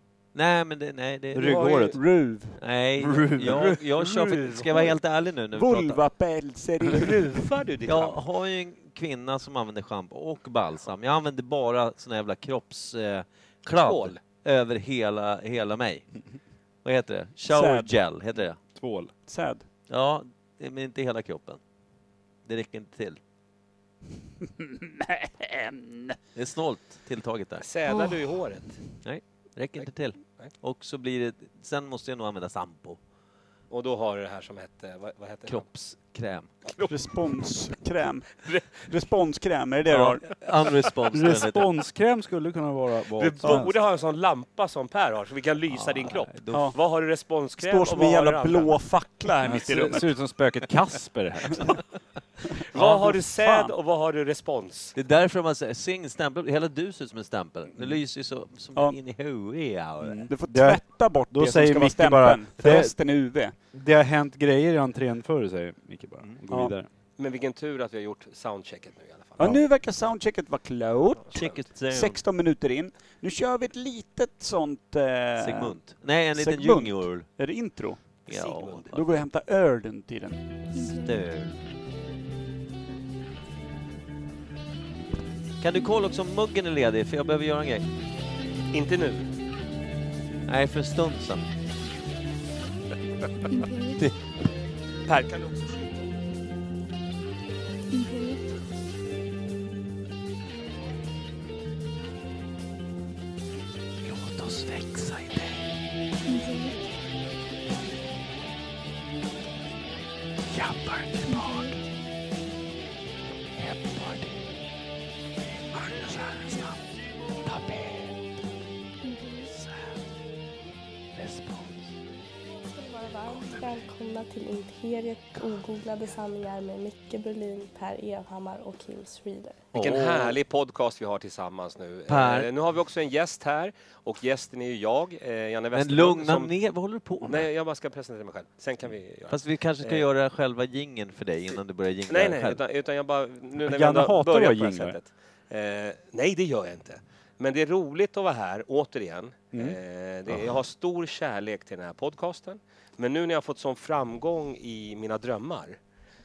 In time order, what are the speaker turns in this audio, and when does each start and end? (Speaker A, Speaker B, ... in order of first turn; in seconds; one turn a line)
Speaker A: 0.3-1.9
Speaker B: 1.3-2.0
Speaker C: 1.4-2.0
Speaker D: 1.9-2.6
Speaker A: 2.6-6.0
Speaker B: 3.0-3.8
Speaker C: 4.0-5.0
Speaker D: 5.5-7.2
Speaker C: 6.9-8.2
Speaker A: 7.9-16.1
Speaker C: 13.8-14.2
Speaker A: 16.8-18.6
Speaker D: 17.5-17.9
Speaker B: 18.8-19.1
Speaker D: 19.3-19.6
Speaker A: 19.9-21.6
Speaker A: 22.5-23.2
Speaker D: 24.5-26.2
Speaker A: 26.4-27.7
Speaker C: 27.6-28.8
Speaker A: 29.0-33.0
Speaker C: 33.7-35.7
Speaker A: 35.5-36.5
Speaker C: 36.6-37.0
Speaker D: 36.9-40.2
Speaker C: 38.5-38.9
Speaker A: 39.9-41.7
Speaker B: 41.1-43.7
Speaker C: 43.2-48.8
Speaker A: 45.7-46.7
Speaker D: 47.6-50.1
Speaker B: 49.4-51.8
Speaker C: 52.7-55.0
Speaker D: 52.7-53.7
Speaker A: 55.0-60.3
Speaker B: 60.0-62.9
Speaker D: 60.3-63.5
Speaker B: 63.7-66.9
Speaker C: 67.2-69.6
Speaker D: 69.4-75.8
Speaker A: 71.3-72.2
Speaker A: 75.4-77.3
Speaker D: 76.3-78.0
Speaker A: 78.3-79.0
Speaker C: 78.3-79.0
Speaker D: 78.9-80.4
Speaker E: 80.7-81.2
Speaker A: 80.9-81.5
Speaker A: 85.6-87.9
Speaker C: 88.7-89.3
Speaker A: 90.5-91.5
Speaker E: 93.5-94.0
Speaker C: 95.1-96.1
Speaker E: 97.9-98.5
Speaker A: 104.0-105.6
Speaker E: 106.2-106.9
Speaker A: 110.5-111.8
Speaker E: 111.2-111.8
Speaker A: 113.6-114.3
Speaker A: 115.7-116.8
Speaker A: 117.5-118.1
Speaker E: 119.0-119.5
Speaker A: 119.5-119.8
Speaker A: 121.2-121.9
Speaker E: 122.6-129.6
Speaker A: 123.3-123.6
Speaker A: 129.7-130.4
Speaker C: 129.7-136.5
Speaker A: 132.1-132.5
Speaker A: 135.7-137.5
Speaker C: 137.2-140.0
Speaker A: 139.3-142.6
Speaker C: 142.1-155.8
Speaker B: 143.6-145.0
Speaker B: 149.5-149.8